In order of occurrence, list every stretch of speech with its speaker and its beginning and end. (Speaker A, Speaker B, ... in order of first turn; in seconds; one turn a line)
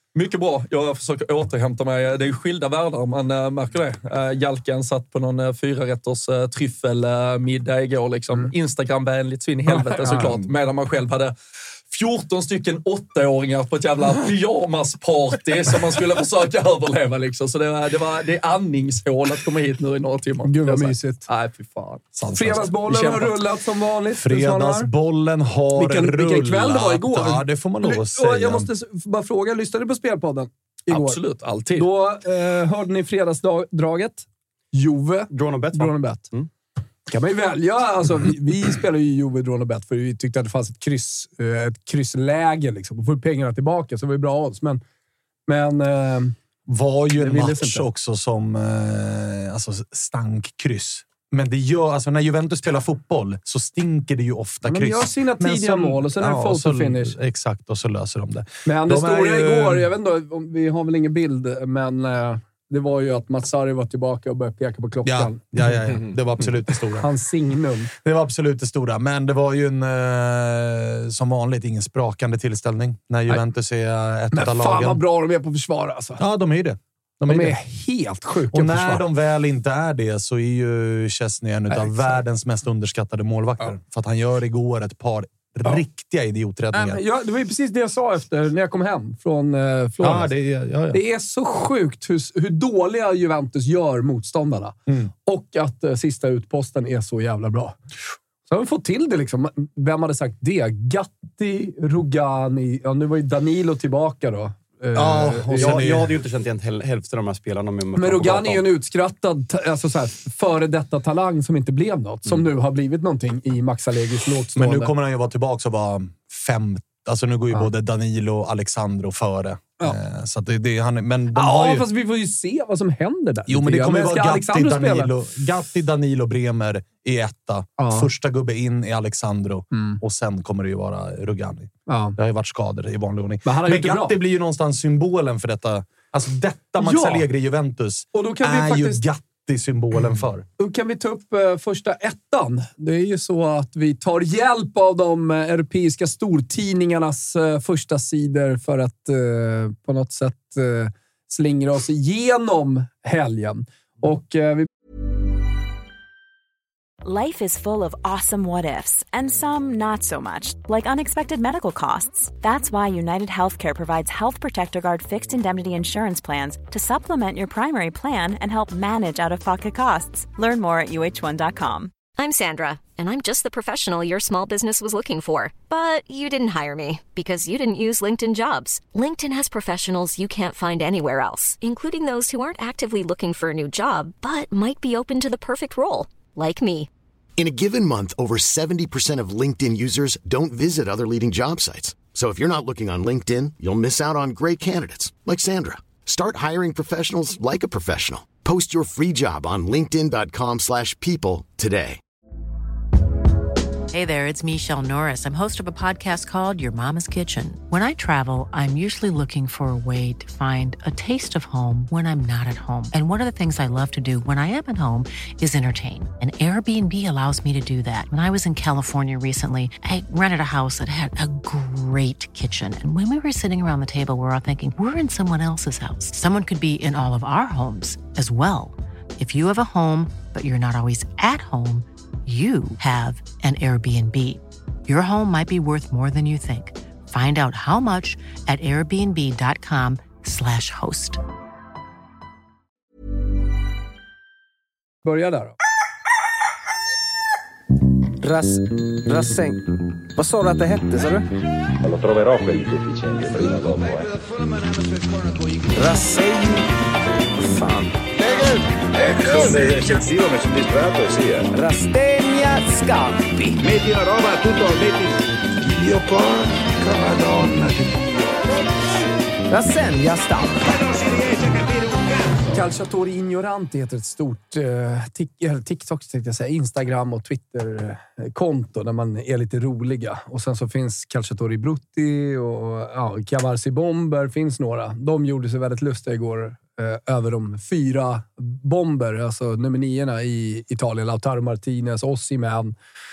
Speaker A: 0.1-11.3
Speaker B: 9.7-10.5
Speaker A: 11.9-22.1
Speaker B: 20.4-21.3
Speaker C: 22.2-22.7
Speaker B: 22.3-24.9
Speaker A: 22.7-23.5
Speaker C: 24.1-28.7
Speaker B: 25.7-31.2
Speaker A: 30.9-31.9
Speaker B: 31.7-36.3
Speaker D: 35.3-36.5
Speaker B: 37.1-44.8
Speaker B: 45.5-46.4
Speaker C: 46.7-59.9
Speaker B: 47.2-47.9
Speaker B: 54.7-57.2
Speaker B: 58.7-65.7
Speaker C: 65.0-67.1
Speaker B: 67.0-67.9
Speaker C: 68.0-75.0
Speaker B: 74.3-76.2
Speaker C: 76.2-77.6
Speaker B: 77.2-79.0
Speaker C: 78.5-87.0
Speaker B: 81.7-82.0
Speaker B: 86.7-90.3
Speaker C: 90.0-91.0
Speaker B: 90.9-97.8
Speaker B: 98.5-105.9
Speaker C: 104.9-106.1
Speaker D: 105.6-108.7
Speaker B: 108.0-114.9
Speaker C: 114.6-121.9
Speaker B: 121.3-125.1
Speaker C: 123.5-140.5
Speaker B: 127.8-128.1
Speaker B: 129.7-130.0
Speaker B: 131.9-132.2
Speaker B: 133.4-134.2
Speaker B: 136.8-137.3
Speaker B: 138.1-139.0
Speaker B: 140.6-154.7
Speaker E: 157.0-171.9
Speaker F: 172.2-186.9
Speaker G: 187.4-202.0
Speaker H: 203.9-241.2
Speaker B: 245.1-245.6
Speaker I: 248.2-251.3
Speaker J: 251.8-254.2
Speaker I: 255.8-256.6
Speaker I: 257.4-257.9
Speaker J: 258.3-261.5
Speaker I: 259.3-259.6
Speaker I: 261.5-263.6
Speaker J: 263.7-264.6
Speaker I: 264.6-265.1
Speaker J: 265.9-267.6
Speaker I: 269.5-270.9
Speaker B: 272.5-292.7